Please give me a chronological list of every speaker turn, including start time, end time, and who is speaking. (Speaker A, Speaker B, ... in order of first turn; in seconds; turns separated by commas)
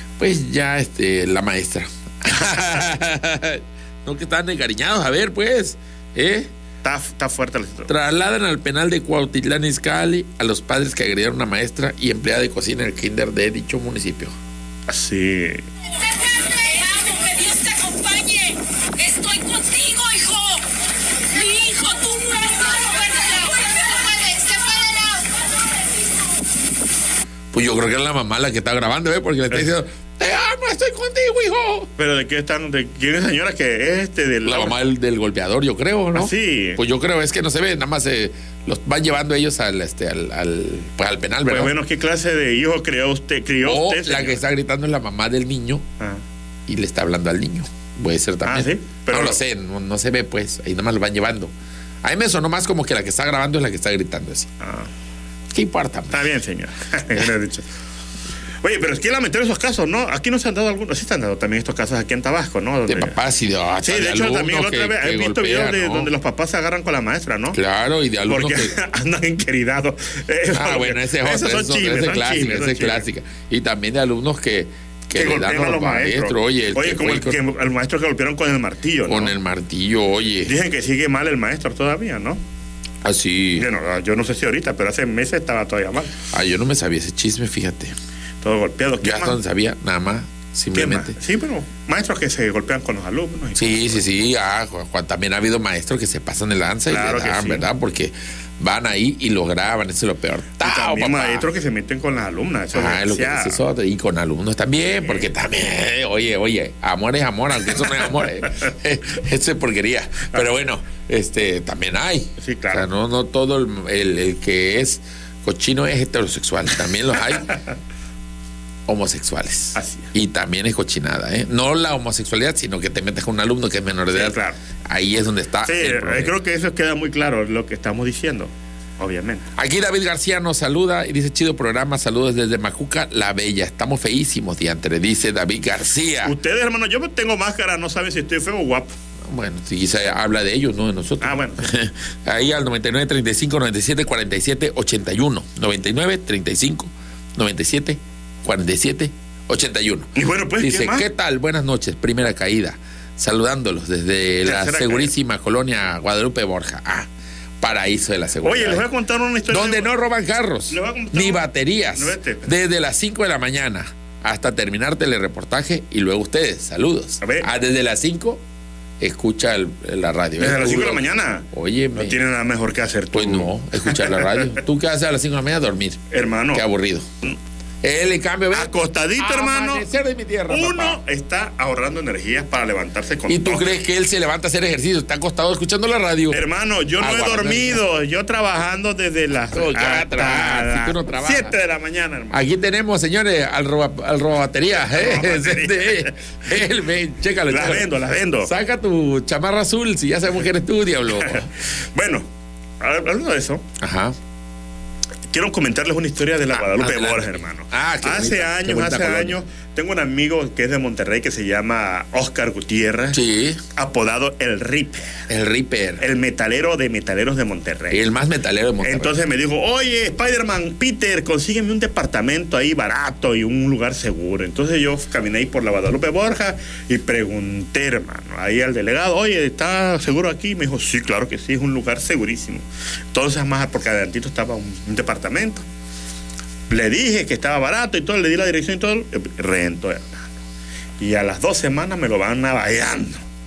Speaker A: 0.2-6.5, Speaker B: 2.3-2.9, Speaker B: 6.8-7.9, Speaker A: 7.9-14.3, Speaker B: 14.9-15.6, Speaker C: 16.0-20.7, Speaker C: 21.3-25.4, Speaker A: 27.5-31.9, Speaker B: 32.0-34.8, Speaker A: 34.5-41.7, Speaker B: 36.1-36.8, Speaker B: 41.5-44.4, Speaker A: 43.6-45.9, Speaker A: 46.7-54.5, Speaker B: 48.5-49.4, Speaker B: 54.6-54.9, Speaker A: 55.5-56.2, Speaker B: 56.1-57.7, Speaker B: 58.6-63.2, Speaker A: 62.9-66.1, Speaker B: 63.8-67.6, Speaker A: 67.5-68.8, Speaker B: 68.3-73.0, Speaker A: 70.5-77.4, Speaker B: 75.2-79.3, Speaker A: 79.1-80.5, Speaker B: 80.5-82.4, Speaker A: 83.0-83.7, Speaker B: 83.6-86.1, Speaker A: 86.3-88.0, Speaker B: 88.4-89.4, Speaker A: 89.0-91.2, Speaker B: 90.7-94.0, Speaker A: 93.6-101.5, Speaker B: 96.9-97.7, Speaker B: 100.6-103.6, Speaker A: 102.7-117.5, Speaker B: 112.4-112.9, Speaker A: 118.9-126.3, Speaker B: 119.8-120.1, Speaker B: 124.1-124.6, Speaker B: 125.7-129.5, Speaker A: 129.6-136.3, Speaker B: 136.2-138.9, Speaker A: 139.3-157.1, Speaker B: 141.2-141.7, Speaker B: 150.2-151.1, Speaker B: 154.4-155.1, Speaker A: 157.6-158.8, Speaker B: 158.4-159.9, Speaker A: 159.5-168.4, Speaker B: 160.7-162.6, Speaker B: 167.2-167.5, Speaker A: 169.0-172.2, Speaker B: 170.4-174.6, Speaker A: 173.1-177.1, Speaker B: 176.1-176.7, Speaker A: 177.8-181.0, Speaker B: 178.5-179.9, Speaker B: 180.5-183.8, Speaker A: 183.3-186.4, Speaker B: 186.3-192.4, Speaker A: 187.0-187.8, Speaker A: 189.5-191.5, Speaker A: 192.3-197.9, Speaker B: 194.7-196.2, Speaker B: 197.5-198.5, Speaker A: 198.4-201.5, Speaker B: 201.2-202.3, Speaker B: 202.8-203.6, Speaker A: 203.8-204.2, Speaker B: 205.3-213.2, Speaker A: 206.5-209.4, Speaker A: 213.1-213.6, Speaker B: 213.8-215.2, Speaker A: 215.3-216.0, Speaker B: 216.0-218.0, Speaker A: 217.9-219.2, Speaker B: 218.8-235.7, Speaker B: 236.7-240.3, Speaker B: 241.0-243.2